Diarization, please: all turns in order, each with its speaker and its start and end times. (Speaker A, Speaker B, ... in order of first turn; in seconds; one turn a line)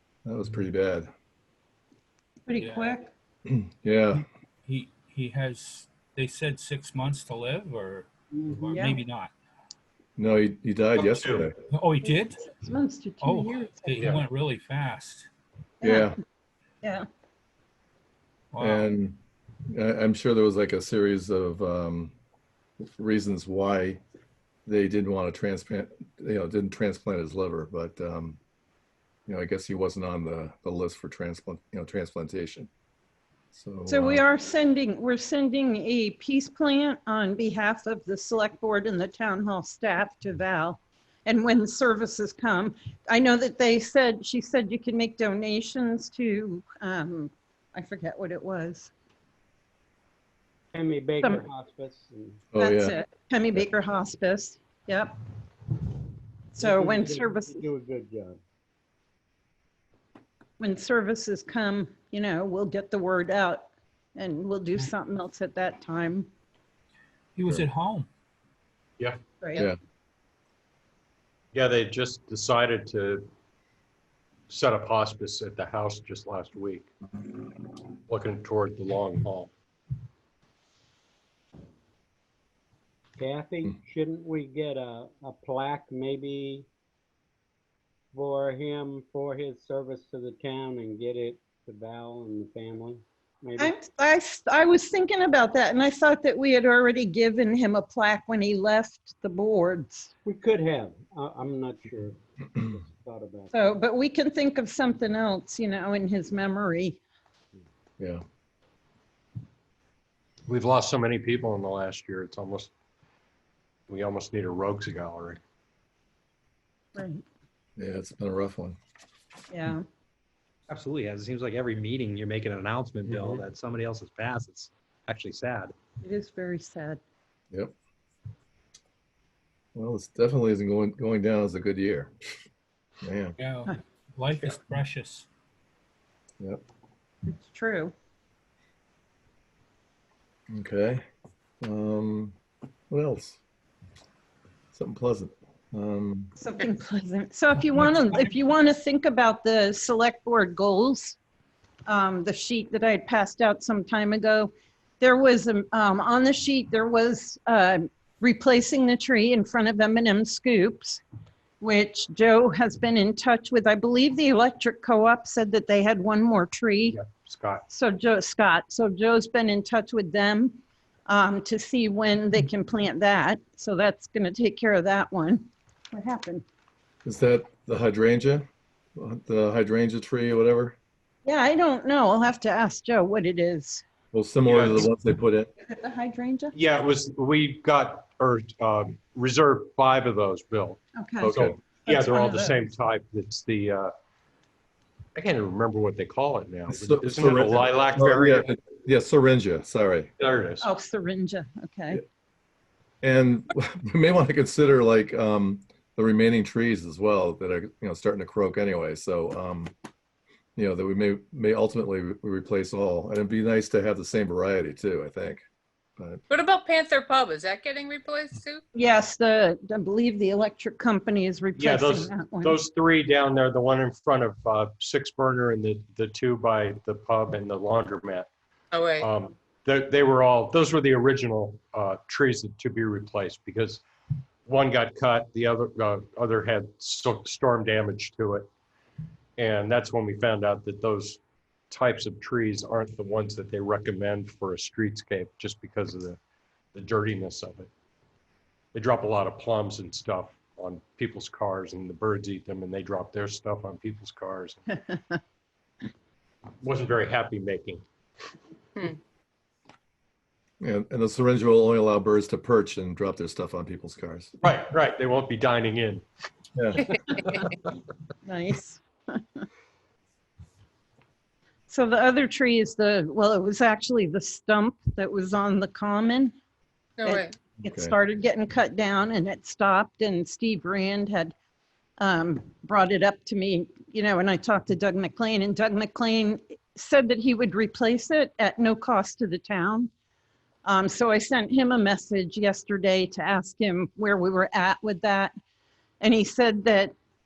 Speaker A: 0.3-1.1
Speaker B: 2.5-3.1
Speaker C: 2.6-3.0
Speaker A: 3.5-4.2
Speaker C: 4.7-9.3
Speaker B: 8.7-9.0
Speaker A: 10.2-11.5
Speaker C: 11.7-12.5
Speaker B: 12.0-14.1
Speaker C: 13.2-15.3
Speaker D: 13.9-14.2
Speaker B: 15.8-16.1
Speaker A: 15.8-16.2
Speaker C: 18.5-18.9
Speaker A: 18.6-19.2
Speaker A: 19.7-22.1
Speaker A: 22.9-24.0
Speaker A: 24.7-28.4
Speaker A: 29.3-32.7
Speaker A: 33.5-34.2
Speaker B: 33.9-48.9
Speaker E: 50.7-52.4
Speaker A: 52.5-53.0
Speaker B: 52.6-55.1
Speaker B: 56.5-57.7
Speaker E: 56.6-58.4
Speaker B: 60.6-66.3
Speaker C: 67.4-68.1
Speaker B: 69.4-69.7
Speaker D: 71.5-73.3
Speaker D: 74.5-76.9
Speaker D: 78.1-79.5
Speaker E: 83.2-86.7
Speaker E: 88.1-93.8
Speaker B: 93.6-100.1
Speaker E: 100.2-103.7
Speaker B: 103.5-107.0
Speaker D: 110.5-112.7
Speaker D: 113.9-115.4
Speaker B: 117.0-117.2
Speaker A: 117.8-118.8
Speaker B: 119.5-119.8
Speaker F: 120.7-125.8
Speaker B: 126.0-127.0
Speaker A: 129.8-132.1
Speaker A: 133.0-133.3
Speaker C: 133.4-135.3
Speaker B: 137.3-137.9
Speaker A: 140.5-141.0
Speaker A: 141.6-142.3
Speaker A: 142.9-143.4
Speaker A: 144.7-146.3
Speaker B: 146.4-151.2
Speaker B: 151.9-161.0
Speaker B: 161.6-167.0
Speaker D: 166.9-167.6
Speaker B: 167.7-176.4
Speaker A: 177.1-180.8
Speaker B: 181.2-183.8
Speaker A: 184.1-185.5
Speaker D: 184.5-184.9
Speaker B: 185.7-186.5
Speaker D: 186.5-193.9
Speaker B: 191.0-192.6
Speaker A: 191.2-191.6
Speaker D: 195.2-198.5
Speaker A: 196.7-200.1
Speaker D: 200.2-200.7
Speaker B: 200.6-202.0
Speaker A: 203.0-209.7
Speaker A: 210.6-215.4
Speaker G: 216.3-218.6
Speaker B: 218.7-222.6
Speaker D: 221.6-228.3
Speaker G: 228.7-229.1
Speaker D: 229.0-233.8
Speaker D: 234.5-238.5
Speaker D: 239.4-241.2
Speaker D: 241.7-246.2
Speaker D: 246.8-247.7
Speaker D: 248.7-254.6
Speaker D: 256.6-257.8
Speaker A: 260.6-264.3
Speaker D: 264.4-266.0
Speaker A: 266.6-266.9
Speaker B: 268.3-269.4
Speaker B: 271.7-276.3
Speaker G: 277.0-277.3
Speaker B: 277.1-281.4
Speaker A: 277.6-278.0
Speaker B: 282.0-289.9
Speaker B: 290.6-295.3
Speaker B: 296.0-296.9